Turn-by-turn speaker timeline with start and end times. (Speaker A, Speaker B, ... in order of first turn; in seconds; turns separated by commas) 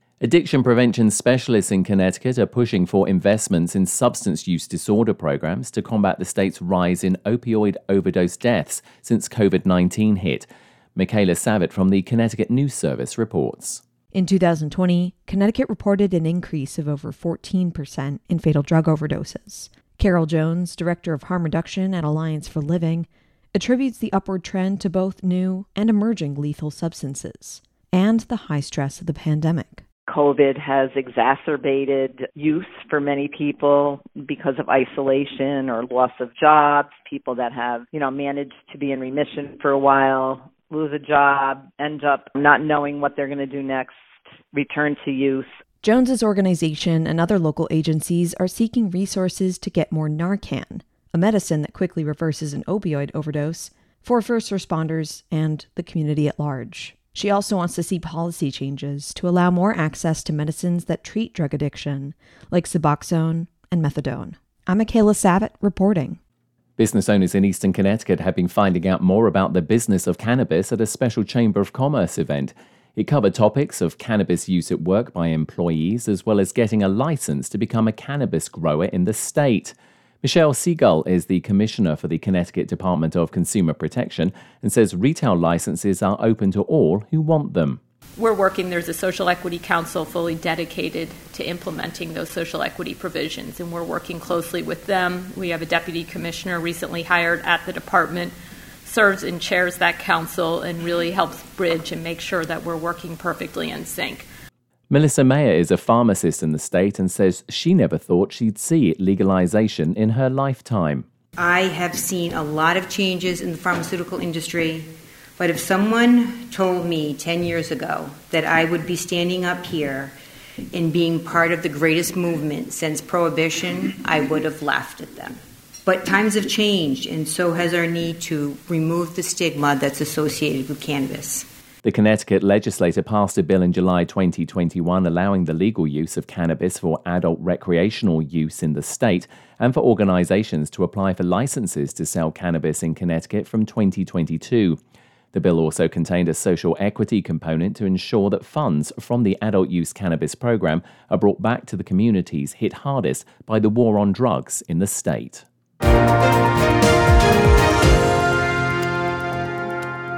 Speaker A: 0.2-13.8, Speaker B: 14.1-29.8, Speaker C: 30.1-44.0, Speaker C: 44.5-45.5, Speaker B: 45.8-66.2, Speaker A: 66.8-87.8, Speaker D: 88.2-98.3, Speaker D: 98.8-104.2, Speaker A: 104.9-111.1, Speaker E: 111.4-120.2, Speaker E: 120.7-131.5, Speaker A: 131.8-144.8, Speaker A: 145.3-155.4